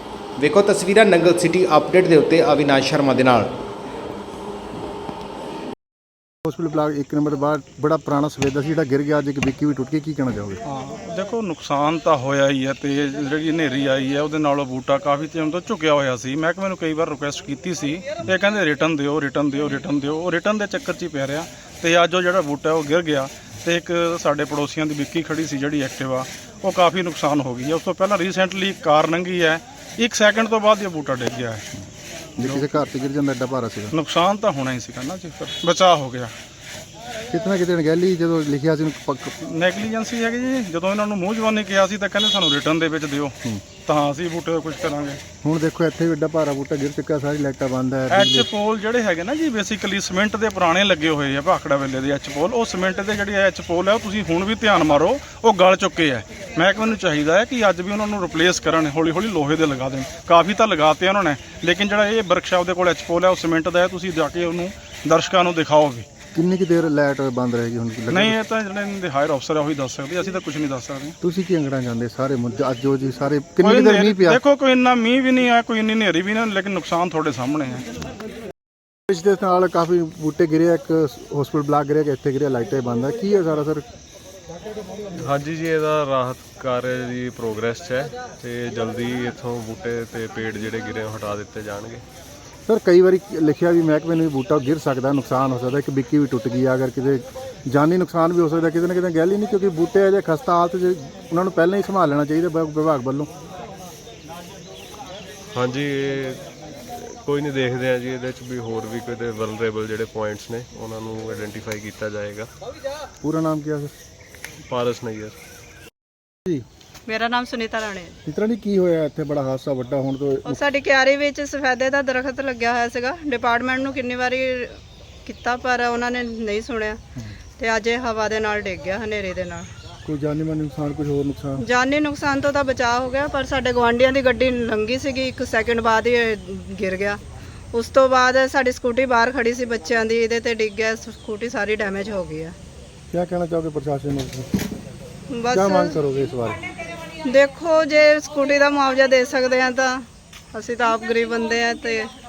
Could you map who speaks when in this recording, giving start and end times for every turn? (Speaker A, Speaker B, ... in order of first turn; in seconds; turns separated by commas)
Speaker A: 0.4-3.5, Speaker B: 6.5-10.6, Speaker C: 10.7-31.7, Speaker B: 32.4-34.0, Speaker C: 32.4-32.7, Speaker C: 33.9-36.3, Speaker B: 37.3-39.3, Speaker C: 39.4-45.2, Speaker B: 45.4-48.5, Speaker C: 48.1-66.1, Speaker B: 66.3-68.4, Speaker C: 68.1-71.2, Speaker B: 71.2-74.4, Speaker C: 73.6-77.9, Speaker B: 79.1-83.8, Speaker D: 85.2-92.0, Speaker B: 92.7-103.3, Speaker D: 105.5-112.5, Speaker B: 113.2-113.9, Speaker D: 114.7-115.4, Speaker E: 117.1-118.2, Speaker B: 118.2-120.6, Speaker E: 120.5-127.0, Speaker E: 127.6-129.7, Speaker B: 130.0-131.7, Speaker E: 131.6-137.2, Speaker E: 137.7-142.5, Speaker B: 143.1-144.5, Speaker E: 145.3-146.0, Speaker B: 145.5-146.6, Speaker E: 147.2-150.0, Speaker E: 150.5-152.1